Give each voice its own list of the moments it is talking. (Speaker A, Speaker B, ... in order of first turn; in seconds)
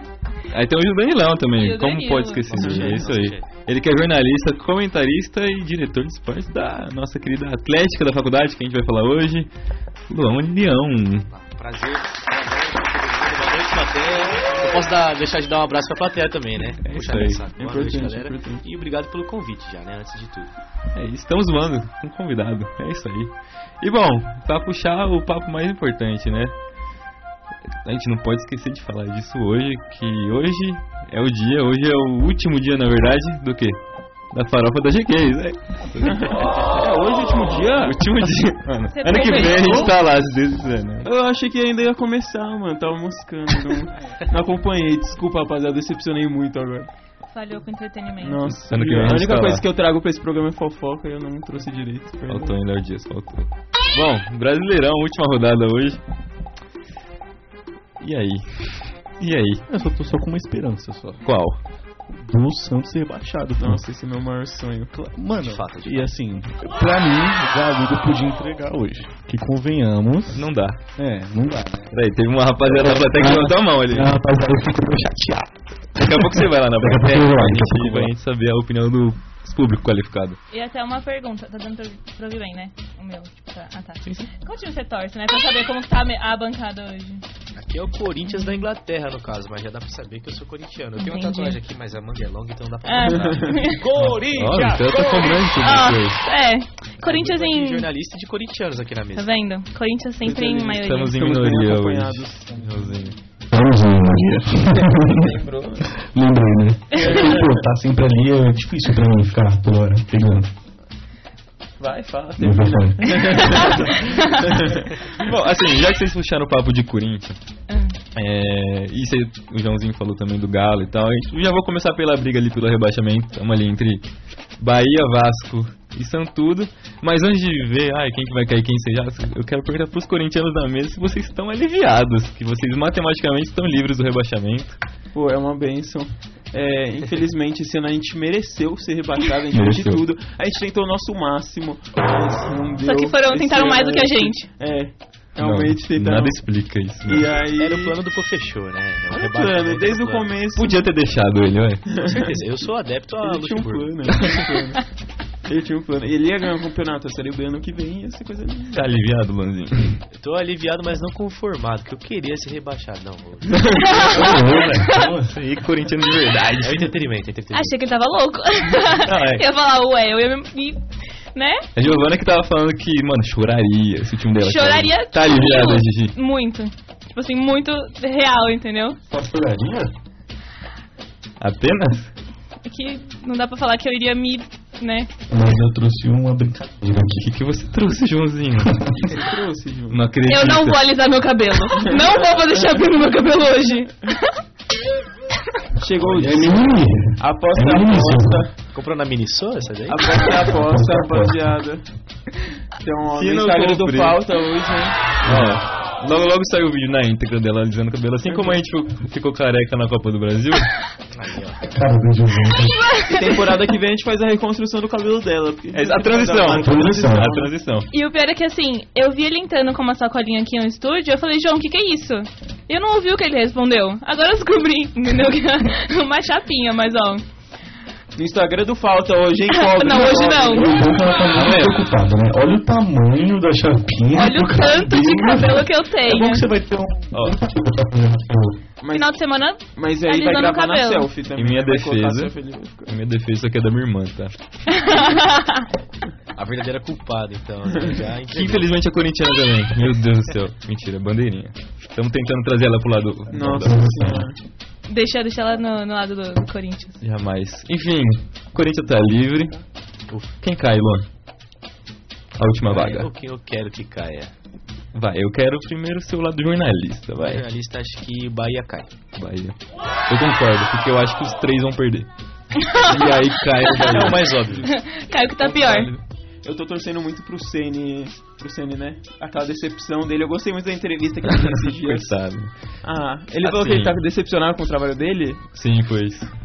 Speaker A: 0.5-9.5, 10.1-11.3, 16.8-17.4, 20.9-26.5, 27.8-33.8, 34.3-36.7, 37.8-41.1, 48.7-49.6, 52.3-56.0, 58.0-59.6, 61.2-61.6, 70.3-70.8, 71.9-74.1, 76.0-80.4, 93.9-96.2, 100.7-103.2, 105.1-105.9, 115.1-117.4, 118.1-134.8, 139.5-140.1, 145.4-147.3, 150.5-151.8, 158.7-160.0, 164.9-166.9, 169.0-169.4, 171.8-176.1, 181.4-182.1, 187.2-189.2, 189.9-190.9, 203.1-204.2, 205.2-210.7, 215.7-217.9, 231.3-231.8, 237.1-237.4, 241.3-244.3, 248.3-254.1, 257.0-259.6, 260.4-261.1, 262.4-263.1, 264.9-267.4, 269.1-269.6, 270.1-272.1, 272.9-274.4, 281.2-282.5, 283.4-284.0, 285.5-286.3
Speaker B: 1.6-2.4, 38.9-39.9, 47.3-48.5, 80.5-87.2, 88.4-88.6, 91.0-91.6, 92.8-93.8, 95.6-97.8, 99.2-101.2, 106.9-107.2, 113.3-114.3, 117.7-118.0, 142.8-144.5, 163.8-164.7, 167.5-171.7, 174.4-179.0, 182.6-185.1, 190.3-193.9, 217.9-227.2, 229.5-230.8, 234.2-236.4, 238.9-241.1, 244.7-245.7, 254.9-257.0, 272.6-273.2, 273.7-274.0, 274.6-275.9
Speaker C: 2.5-3.5, 11.3-20.5, 65.4-66.1, 87.5-95.0, 97.0-99.3, 147.5-150.3, 152.0-154.1, 160.1-164.2, 166.6-167.7, 198.7-200.2, 211.1-211.6, 246.3-248.7, 260.1-260.3, 262.6-264.3, 267.2-268.9, 273.8-274.6
Speaker D: 2.6-3.0, 17.5-18.6, 36.0-38.0, 41.0-46.9, 48.2-52.6, 63.6-64.9, 93.1-93.6, 100.2-102.6, 111.8-114.9, 135.1-146.4, 147.1-148.0, 149.1-150.8, 151.9-152.4, 153.2-154.8, 155.4-158.8, 189.1-190.0, 191.8-192.1, 195.8-196.6, 197.2-198.5, 199.9-201.8, 202.8-205.2, 208.3-208.6, 213.0-217.5, 228.2-230.8, 238.8-239.2, 239.7-242.9, 253.3-254.3, 275.4-282.1, 282.8-285.4
Speaker E: 59.7-61.2, 62.1-63.8, 64.9-71.9, 72.7-78.1, 103.5-110.5, 112.4-113.1, 164.1-165.3, 179.1-179.9, 185.3-187.3, 188.6-188.9, 196.0-198.4, 200.5-201.4, 205.2-205.6, 211.7-212.8, 216.5-217.3, 230.6-238.6, 253.6-254.2